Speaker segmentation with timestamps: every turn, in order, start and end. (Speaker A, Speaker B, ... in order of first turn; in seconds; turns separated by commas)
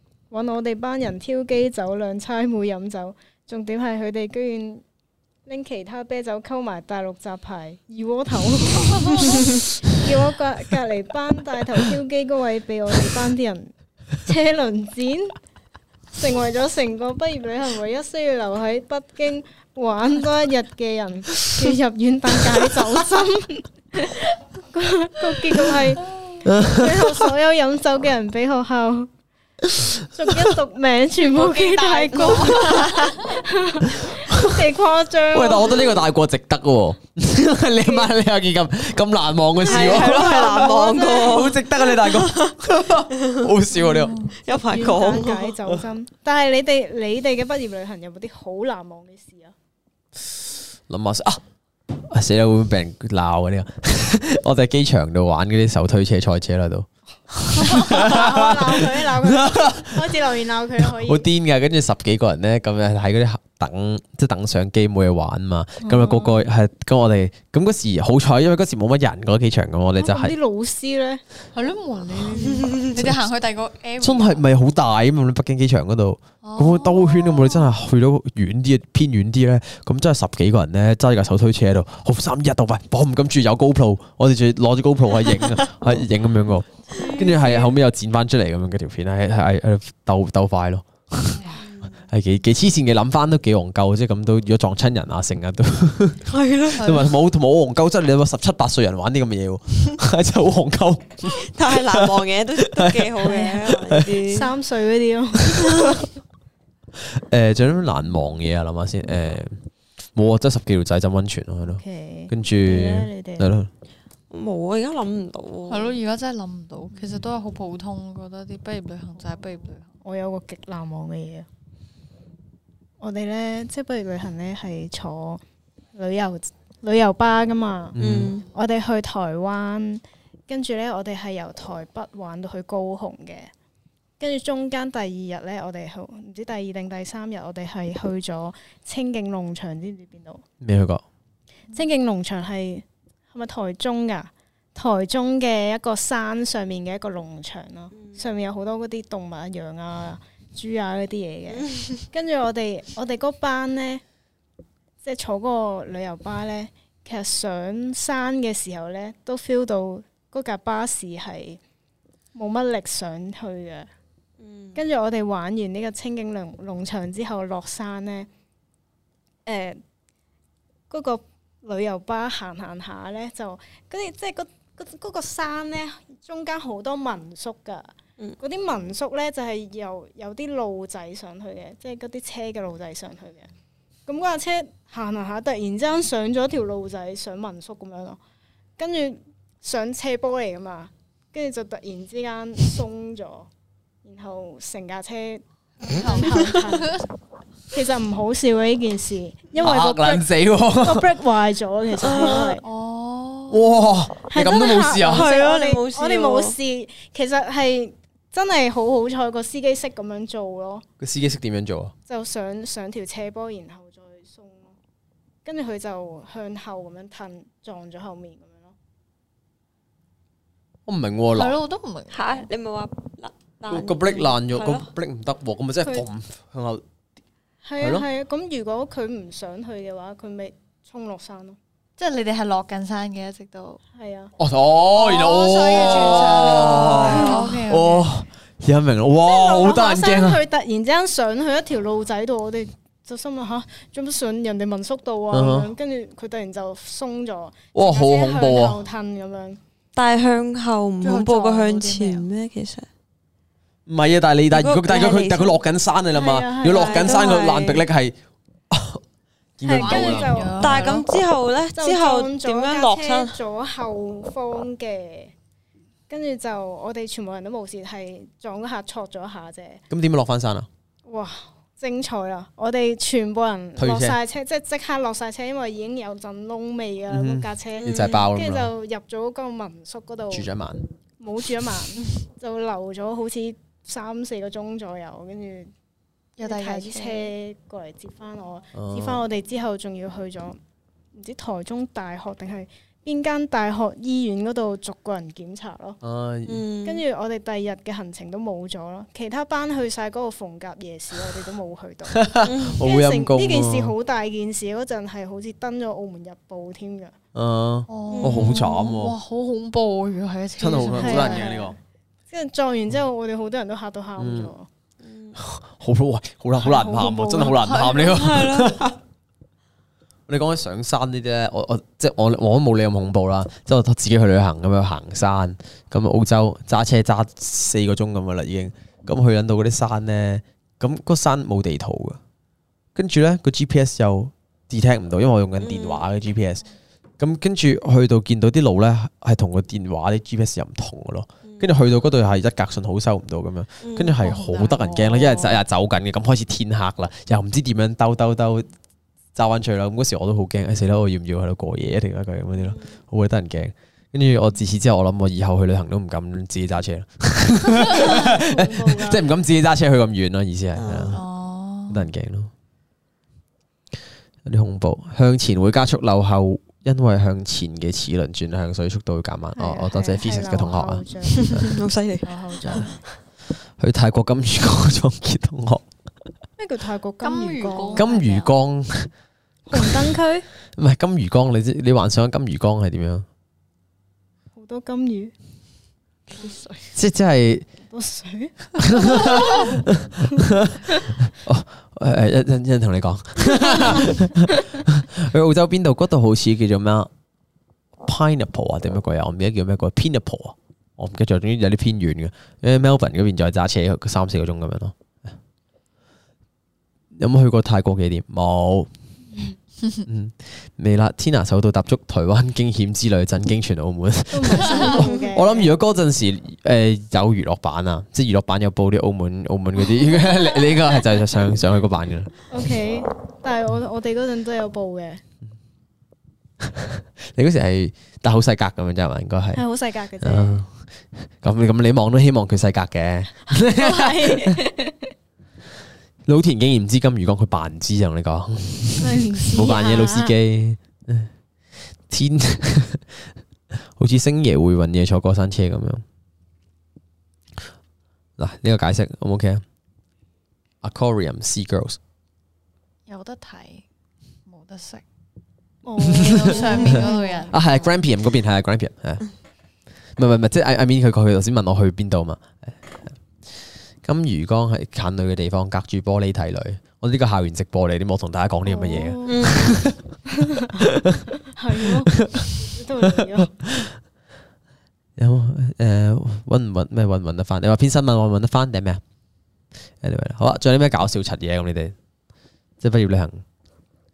Speaker A: 0.3-4.8, Speaker A: 5.5-15.4, Speaker A: 16.1-29.1, Speaker B: 26.4-27.3, Speaker B: 29.8-30.5, Speaker A: 30.0-36.0, Speaker C: 31.3-33.4, Speaker D: 32.1-33.0, Speaker B: 34.0-34.6, Speaker B: 35.3-44.2, Speaker A: 37.8-38.1, Speaker A: 39.6-41.6, Speaker C: 39.6-42.6, Speaker C: 43.1-43.5, Speaker D: 43.7-44.4, Speaker C: 44.4-45.6, Speaker A: 44.5-49.5, Speaker B: 50.9-51.4, Speaker B: 51.9-60.1, Speaker A: 57.6-61.3, Speaker B: 60.8-70.3, Speaker A: 65.8-66.4, Speaker A: 70.0-71.2, Speaker D: 71.5-74.4, Speaker B: 74.0-91.5, Speaker D: 76.4-77.7, Speaker C: 87.0-87.7, Speaker A: 87.0-87.3, Speaker C: 91.5-92.1, Speaker B: 92.1-103.2, Speaker C: 96.3-97.0, Speaker D: 96.8-97.0, Speaker C: 101.3-104.5, Speaker A: 103.3-103.5, Speaker B: 103.7-104.2, Speaker A: 104.2-106.1, Speaker B: 107.0-109.6, Speaker B: 110.1-113.7, Speaker A: 111.7-113.5, Speaker C: 114.3-116.0, Speaker D: 115.7-119.9, Speaker A: 120.0-121.5, Speaker A: 123.0-125.4, Speaker A: 125.9-127.9, Speaker B: 127.9-128.3, Speaker C: 128.0-128.4, Speaker A: 128.5-133.5, Speaker A: 134.2-140.4, Speaker B: 140.6-141.0, Speaker A: 141.7-154.0, Speaker C: 147.9-148.2, Speaker C: 151.5-152.0, Speaker A: 155.0-161.6, Speaker A: 162.3-163.9, Speaker C: 164.4-164.8, Speaker A: 164.8-168.3, Speaker A: 169.4-169.8, Speaker A: 170.9-183.5, Speaker A: 184.1-188.2, Speaker A: 188.8-193.5, Speaker A: 194.0-197.1, Speaker D: 195.8-197.0, Speaker A: 197.7-202.6, Speaker B: 199.6-201.2, Speaker C: 202.0-202.6, Speaker D: 202.6-203.6, Speaker B: 203.5-205.3, Speaker A: 204.3-210.8, Speaker C: 205.0-206.6, Speaker B: 211.0-211.9, Speaker A: 212.1-214.7, Speaker A: 215.4-218.8, Speaker B: 220.8-221.6, Speaker D: 221.3-222.4, Speaker C: 222.1-224.9, Speaker B: 223.7-226.8, Speaker A: 227.6-231.6, Speaker B: 227.8-228.1, Speaker D: 232.0-233.8, Speaker A: 233.9-234.3, Speaker B: 234.4-240.4, Speaker D: 234.9-238.1, Speaker C: 236.2-237.6, Speaker A: 239.2-249.6, Speaker B: 245.3-245.7, Speaker B: 247.7-248.8, Speaker C: 249.9-252.9, Speaker D: 251.0-252.3, Speaker B: 253.8-258.2, Speaker C: 254.5-255.6, Speaker A: 256.1-257.3, Speaker C: 256.6-257.8, Speaker B: 258.7-259.0, Speaker B: 259.6-260.5, Speaker A: 259.6-260.9, Speaker D: 259.7-261.1, Speaker C: 260.6-263.4, Speaker A: 261.7-265.3, Speaker A: 266.1-269.8, Speaker B: 269.9-270.7, Speaker A: 271.1-280.5, Speaker B: 273.8-274.2, Speaker B: 277.1-278.7, Speaker C: 277.8-278.2, Speaker B: 280.3-280.8, Speaker A: 281.2-285.7, Speaker D: 286.4-287.3, Speaker A: 286.4-290.6, Speaker B: 288.7-289.2, Speaker A: 291.1-296.0, Speaker B: 296.0-296.6, Speaker C: 296.4-297.0, Speaker A: 296.8-307.1, Speaker B: 302.1-303.9, Speaker C: 302.4-302.8, Speaker B: 307.3-309.1, Speaker D: 307.9-311.6, Speaker C: 308.1-308.6, Speaker B: 310.6-311.8, Speaker A: 310.9-311.8, Speaker A: 312.3-314.7, Speaker B: 314.2-314.5, Speaker C: 315.0-315.4, Speaker B: 315.4-319.0, Speaker D: 316.6-318.2, Speaker C: 317.9-318.8, Speaker B: 320.3-332.2, Speaker B: 332.9-336.6, Speaker C: 335.6-336.0, Speaker B: 337.2-348.7, Speaker C: 341.4-341.8, Speaker C: 343.8-344.2, Speaker D: 344.2-345.4, Speaker B: 349.3-361.2, Speaker C: 352.6-353.0, Speaker A: 357.9-359.2, Speaker C: 360.7-361.2, Speaker D: 361.1-362.1, Speaker B: 361.9-362.5, Speaker B: 364.4-371.0, Speaker A: 369.5-371.7, Speaker C: 371.2-372.9, Speaker A: 372.2-373.0, Speaker D: 372.7-372.9, Speaker B: 373.8-375.9, Speaker A: 376.6-378.1, Speaker D: 377.2-378.5, Speaker B: 377.9-379.1, Speaker A: 379.7-380.5, Speaker B: 379.7-380.1, Speaker B: 380.7-383.2, Speaker A: 384.5-385.3, Speaker D: 386.4-386.7, Speaker B: 386.9-387.6, Speaker A: 387.9-389.9, Speaker B: 388.8-397.1, Speaker A: 390.5-391.0, Speaker B: 398.0-405.0, Speaker B: 407.1-408.9, Speaker B: 410.0-422.4, Speaker A: 414.3-415.7, Speaker C: 414.9-415.2, Speaker A: 422.5-425.2, Speaker B: 426.6-429.6, Speaker A: 429.5-430.6, Speaker B: 430.2-434.6, Speaker A: 433.5-435.1, Speaker B: 436.2-441.3, Speaker A: 439.0-440.3, Speaker B: 442.1-446.0, Speaker B: 448.4-449.6, Speaker B: 450.8-452.0, Speaker D: 453.1-453.8, Speaker D: 454.5-455.0, Speaker A: 455.8-457.4, Speaker B: 456.0-459.2, Speaker D: 456.1-458.0, Speaker C: 456.6-457.1, Speaker B: 460.1-470.0, Speaker A: 468.6-469.6, Speaker C: 469.2-469.8, Speaker A: 470.3-470.9, Speaker B: 470.8-471.2, Speaker A: 471.4-473.5, Speaker B: 472.1-474.0, Speaker B: 475.2-479.0, Speaker B: 480.0-481.9, Speaker B: 482.8-483.4